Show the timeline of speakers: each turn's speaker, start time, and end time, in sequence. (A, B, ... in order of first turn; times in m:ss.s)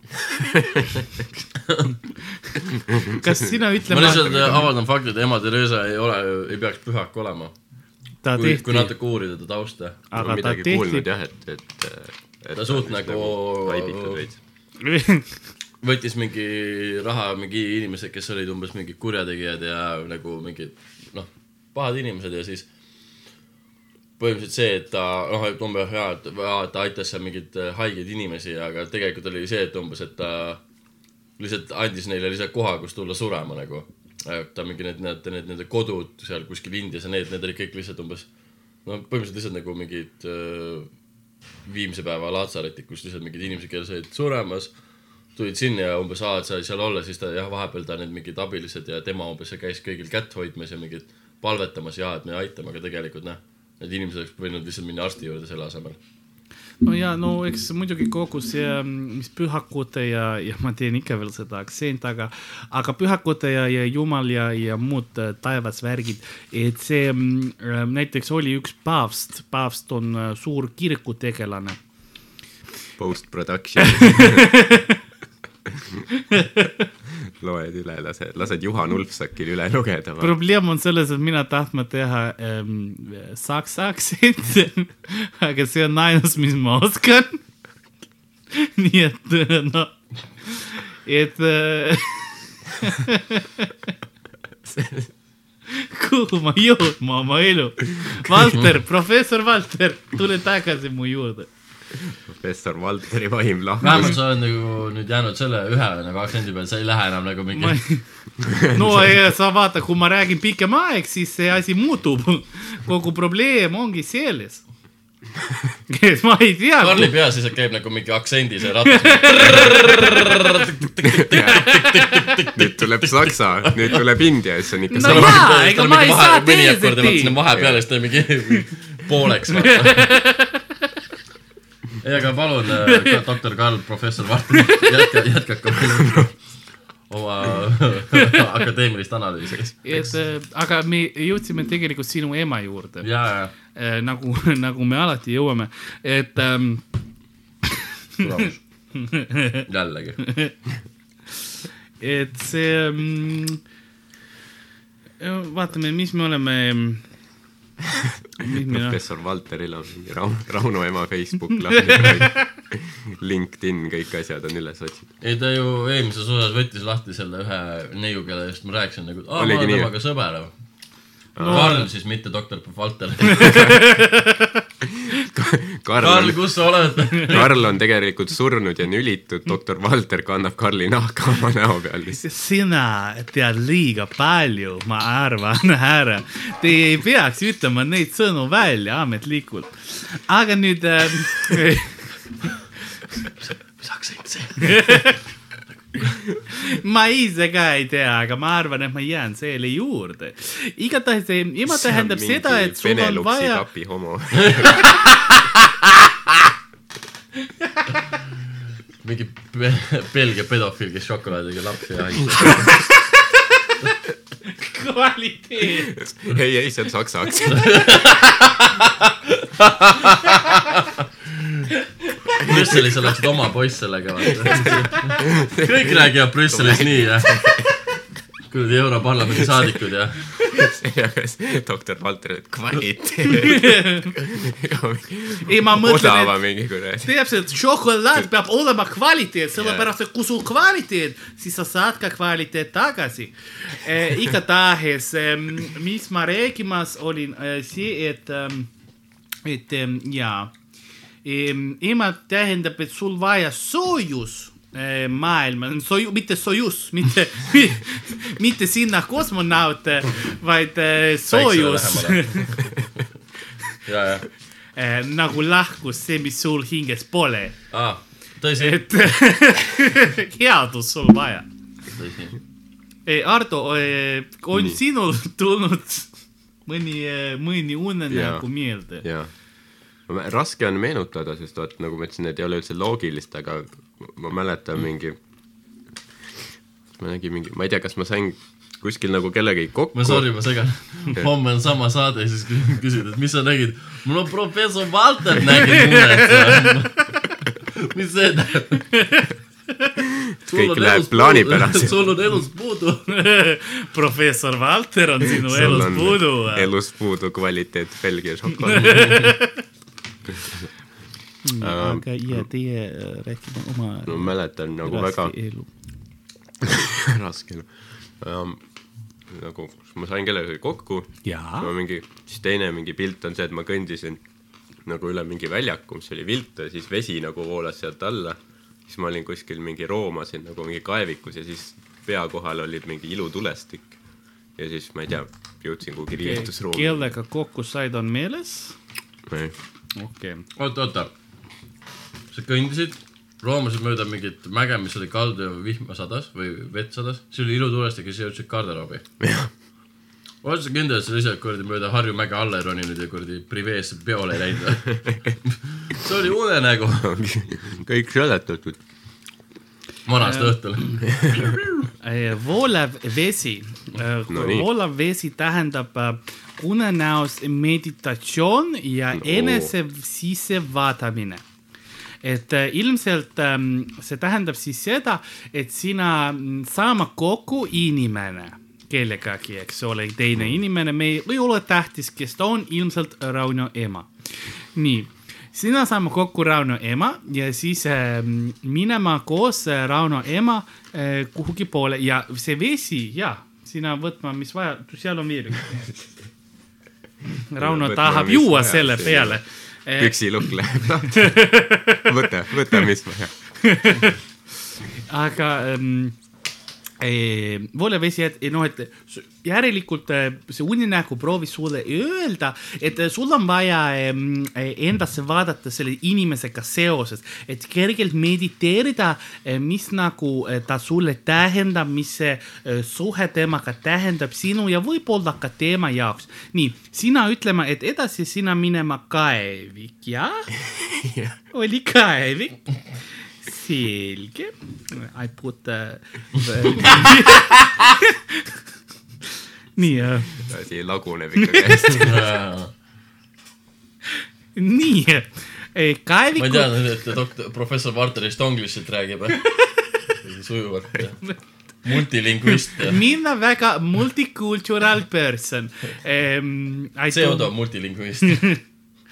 0:00.6-0:00.8 A
0:01.6-0:01.9 B
0:02.9-0:03.2 A
0:03.0-0:04.7 C
0:03.9-0:07.5 B
0:08.2-0:08.9 C
0:08.4-0:10.0 B
0:10.1-0:11.1 C
0:10.1-0:14.4 A
0:12.6-0:14.2 B
0:14.8-0:15.5 C
0:15.8-0:22.7 B
0:24.2-0:30.6 B
0:31.4-0:38.3 B
0:38.8-0:40.9 B
0:41.6-0:44.7 B
0:45.3-0:56.0 B
0:56.8-1:11.8 C
1:13.0-1:14.6 A
1:13.9-1:15.0 C
1:15.7-1:16.0 A
1:16.3-1:16.8 C
1:17.1-1:20.4 A
1:20.2-1:27.4 C
1:28.5-1:33.9 C
1:34.6-1:35.1 A
1:35.7-1:41.5 C
1:42.1-1:44.2 A
1:43.8-1:47.8 B
1:47.5-1:54.6 C
1:48.4-1:48.9 A
1:55.9-1:57.1 C
1:56.8-2:04.0 B
1:58.9-2:00.6 C
2:01.1-2:01.6 A
2:01.4-2:02.3 C
2:02.5-2:05.5 A
2:04.9-2:07.4 C
2:05.0-2:10.2 B
2:07.5-2:07.8 A
2:09.5-2:10.9 C
2:12.0-2:16.3 B
2:12.8-2:13.2 C
2:14.6-2:15.0 C
2:16.0-2:16.3 A
2:17.1-2:19.7 B
2:18.2-2:18.4 C
2:19.8-2:23.1 C
2:23.0-2:23.5 B
2:23.7-2:26.8 C
2:28.2-2:28.6 B
2:28.9-2:29.6 C
2:29.7-2:30.2 B
2:30.2-2:30.5 C
2:32.0-2:33.6 C
2:35.2-2:37.0 C
2:38.4-2:39.0 C
2:38.5-2:45.1 A
2:45.2-2:50.5 B
2:49.4-2:49.9 A
2:51.4-2:51.8 A
2:51.4-2:51.9 C
2:51.5-2:53.8 B
2:53.3-2:54.6 C
2:55.3-2:56.6 A
2:56.0-2:57.5 B
2:57.1-3:02.2 A
3:02.1-3:12.2 C
3:13.3-3:15.2 B
3:14.6-3:15.2 C
3:15.9-3:16.2 B
3:16.5-3:23.6 C
3:21.7-3:25.0 A
3:24.4-3:25.4 B
3:27.6-3:27.9 C
3:29.0-3:32.8 B
3:34.5-3:36.0 C
3:35.9-3:37.8 A
3:37.5-3:41.7 B
3:42.4-3:47.4 B
3:44.3-3:47.8 A
3:48.5-3:50.4 B
3:50.4-3:57.2 A
3:53.2-3:54.1 C
3:55.4-3:56.4 C
3:57.0-4:08.7 C
3:59.6-3:59.9 A
4:09.4-4:10.5 C
4:11.2-4:22.6 C
4:21.3-4:22.8 B
4:23.8-4:24.3 B
4:24.8-4:27.6 C
4:27.7-4:28.8 B
4:28.6-4:31.5 C
4:32.0-4:32.4 B
4:33.0-4:39.0 C
4:34.5-4:34.8 A
4:38.1-4:39.3 A
4:40.0-4:45.2 A
4:46.9-4:50.3 A
4:49.9-4:57.1 B
4:55.6-4:57.2 C
4:57.7-4:58.9 B
4:58.9-4:59.3 C
5:00.1-5:02.1 A
5:00.5-5:03.1 B
5:03.1-5:06.7 C
5:05.3-5:09.0 A
5:08.6-5:09.6 C
5:08.8-5:09.3 B
5:10.2-5:10.7 A
5:11.4-5:15.7 C
5:11.6-5:12.4 A
5:14.0-5:15.3 A
5:16.6-5:18.6 A
5:19.3-5:24.2 A
5:21.2-5:21.7 C
5:24.8-5:34.0 A
5:34.6-5:37.1 A
5:36.2-5:38.8 C
5:39.3-5:39.6 A
5:40.0-5:40.4 C
5:40.6-5:41.1 B
5:42.3-5:49.0 B
5:49.2-5:49.5 A
5:50.4-5:57.1 B
5:57.0-5:58.8 A
6:00.0-6:01.8 B
6:00.2-6:01.0 C
6:01.1-6:01.5 A
6:02.0-6:11.4 C
6:04.3-6:04.7 A
6:09.1-6:09.7 A
6:12.2-6:35.9 C
6:37.5-6:40.2 C
6:37.6-6:39.4 A
6:40.0-6:41.5 A
6:41.1-6:42.1 C
6:42.0-6:43.3 A
6:43.6-6:44.2 C
6:45.1-6:46.2 C
6:47.0-7:10.5 C
7:10.6-7:11.4 A
7:11.5-7:12.6 C
7:13.4-7:18.6 C
7:19.8-7:20.4 C
7:20.4-7:22.2 A
7:21.3-7:22.0 C
7:21.9-7:22.7 B
7:24.6-7:26.7 C
7:26.4-7:29.5 B
7:30.2-7:33.0 B
7:32.7-7:37.5 C
7:37.1-7:38.5 B
7:38.2-7:38.6 C